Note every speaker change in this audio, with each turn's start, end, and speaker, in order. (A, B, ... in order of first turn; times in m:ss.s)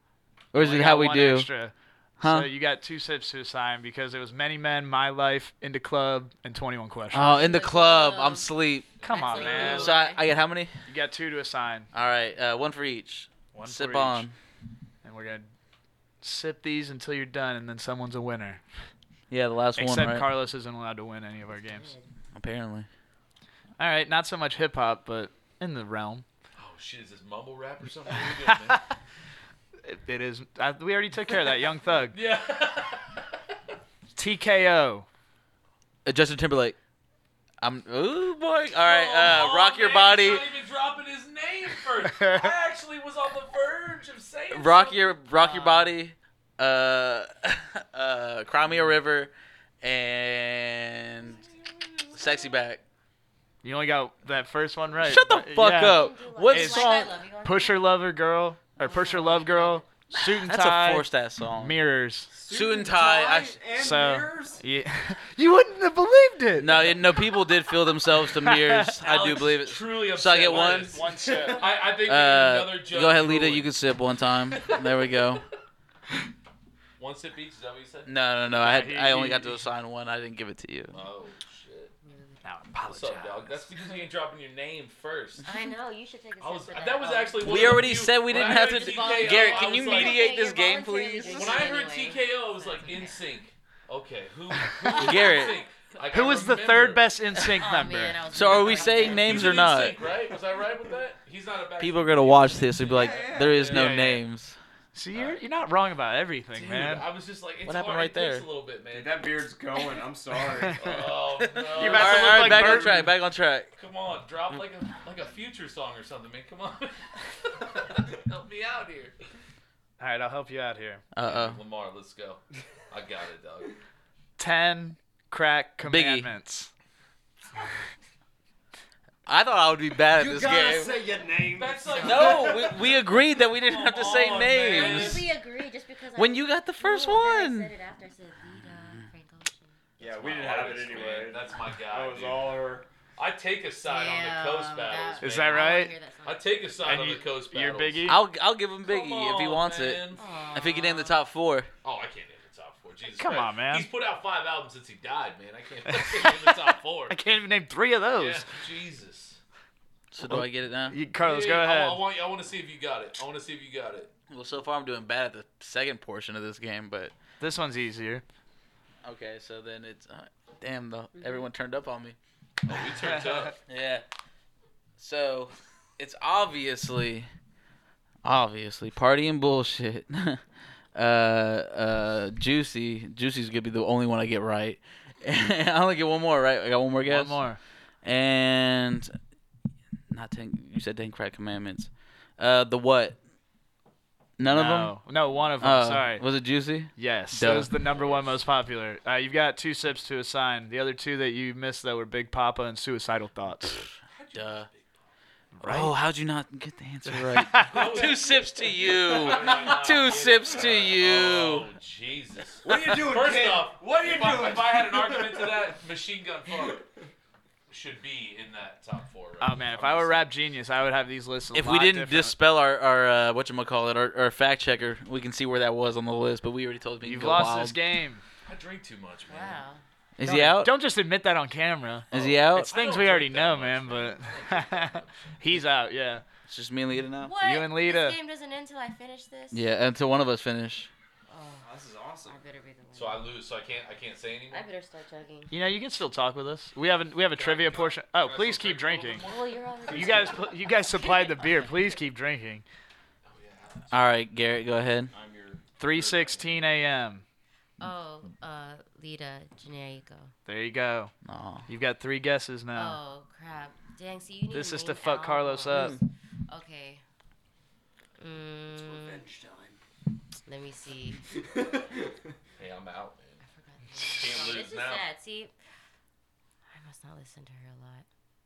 0:00.5-0:01.5 A
0:00.6-0:07.3 B
0:02.2-0:02.5 A
0:07.1-0:08.9 A
0:07.1-0:08.5 C
0:09.0-0:09.9 B
0:09.0-0:10.0 D
0:09.1-0:10.2 C
0:09.4-0:10.7 A
0:10.9-0:11.9 B
0:11.9-0:14.3 A
0:13.5-0:14.3 B
0:15.0-0:15.5 B
0:16.2-0:18.6 B
0:19.3-0:20.3 A
0:19.8-0:21.9 B
0:21.7-0:22.1 C
0:22.3-0:22.9 A
0:23.8-0:26.2 B
0:26.6-0:28.8 D
0:28.4-0:28.8 B
0:29.8-0:32.2 B
0:32.1-0:33.3 D
0:34.2-0:35.1 B
0:36.0-0:36.8 A
0:37.6-0:40.5 A
0:38.8-0:45.2 D
0:44.5-0:51.4 A
0:45.4-0:45.9 B
0:52.1-0:52.8 A
0:53.6-1:02.3 B
0:55.0-0:57.1 A
0:55.8-0:57.9 C
0:58.8-0:59.9 C
1:00.2-1:01.8 A
1:02.3-1:04.6 E
1:02.5-1:03.6 A
1:03.7-1:07.0 B
1:06.6-1:11.0 A
1:08.3-1:08.9 B
1:09.0-1:13.7 D
1:10.5-1:11.6 B
1:11.2-1:11.6 E
1:12.0-1:15.4 A
1:14.6-1:14.9 D
1:17.0-1:18.2 D
1:18.1-1:21.0 A
1:18.6-1:19.6 B
1:20.9-1:21.9 D
1:22.0-1:22.4 C
1:22.4-1:23.7 B
1:22.9-1:25.5 D
1:25.4-1:33.2 C
1:26.4-1:30.3 D
1:27.4-1:31.6 A
1:31.3-1:37.1 D
1:34.8-1:35.6 C
1:34.9-1:35.6 A
1:36.1-1:38.2 B
1:37.6-1:39.5 C
1:38.3-1:40.0 A
1:38.3-1:44.0 D
1:41.8-1:44.6 A
1:43.0-1:43.8 E
1:43.7-1:44.2 B
1:44.9-1:47.0 B
1:45.1-1:45.4 D
1:46.5-1:49.3 D
1:47.6-1:48.5 A
1:48.9-1:50.8 E
1:50.6-1:51.0 B
1:50.8-1:52.9 D
1:51.4-1:53.7 A
1:51.8-1:53.0 B
1:52.0-1:53.0 E
1:53.8-1:59.2 D
2:00.0-2:01.0 B
2:01.1-2:01.6 A
2:01.2-2:03.8 D
2:04.4-2:06.7 B
2:05.9-2:06.3 A
2:09.3-2:11.0 A
2:10.2-2:12.7 E
2:11.5-2:13.0 D
2:12.0-2:12.3 C
2:12.0-2:15.2 A
2:13.6-2:15.4 D
2:14.0-2:19.8 C
2:16.2-2:17.7 A
2:20.0-2:22.6 D
2:20.0-2:22.9 E
2:23.2-2:28.2 D
2:23.8-2:26.8 C
2:25.2-2:25.9 B
2:26.8-2:28.2 B
2:28.1-2:31.7 A
2:28.8-2:30.2 D
2:30.1-2:31.2 C
2:31.8-2:37.2 D
2:33.2-2:33.9 B
2:35.9-2:36.5 B
2:37.1-2:38.5 B
2:38.2-2:39.4 D
2:40.1-2:41.0 A
2:40.3-2:42.0 B
2:41.2-2:44.1 D
2:44.3-2:47.1 A
2:47.4-2:48.2 B
2:49.0-2:52.2 A
2:51.2-2:51.4 C
2:52.7-2:53.6 D
2:53.7-2:54.0 A
2:55.0-2:57.3 A
2:58.2-3:00.4 A
3:01.0-3:07.4 A
3:07.0-3:07.6 B
3:08.0-3:09.2 A
3:10.1-3:13.2 A
3:14.4-3:17.7 A
3:14.4-3:16.3 B
3:17.0-3:23.9 B
3:24.1-3:24.9 D
3:24.3-3:24.7 A
3:25.5-3:25.9 B
3:25.6-3:31.7 A
3:27.4-3:27.7 B
3:27.6-3:36.9 D
3:32.6-3:35.7 E
3:37.7-3:40.3 D
3:39.4-3:42.4 B
3:41.5-3:47.8 A
3:47.0-3:48.2 B
3:48.5-3:49.6 D
3:49.3-3:49.8 C
3:50.2-3:50.7 A
3:50.2-3:56.2 B
3:52.1-3:52.8 A
3:52.1-3:55.6 D
3:56.5-3:57.4 A
3:57.1-3:59.6 C
3:57.4-3:58.2 B
3:59.5-4:00.9 A
4:01.3-4:01.7 C
4:01.6-4:02.4 E
4:02.2-4:03.4 C
4:02.9-4:04.7 D
4:04.5-4:05.5 C
4:05.5-4:09.2 B
4:07.3-4:09.5 D
4:09.2-4:11.7 C
4:09.9-4:10.5 E
4:09.9-4:12.6 B
4:13.3-4:14.0 D
4:13.9-4:15.1 A
4:15.1-4:16.5 E
4:15.8-4:17.2 B
4:17.8-4:20.3 C
4:20.5-4:21.1 B
4:21.2-4:21.7 A
4:21.7-4:23.0 B
4:22.8-4:27.0 C
4:24.5-4:26.0 B
4:25.7-4:26.0 A
4:28.2-4:29.3 C
4:28.8-4:29.8 E
4:30.5-4:31.2 C
4:31.6-4:31.9 D
4:32.6-4:33.4 D
4:33.4-4:35.5 C
4:34.1-4:35.1 D
4:36.7-4:38.1 C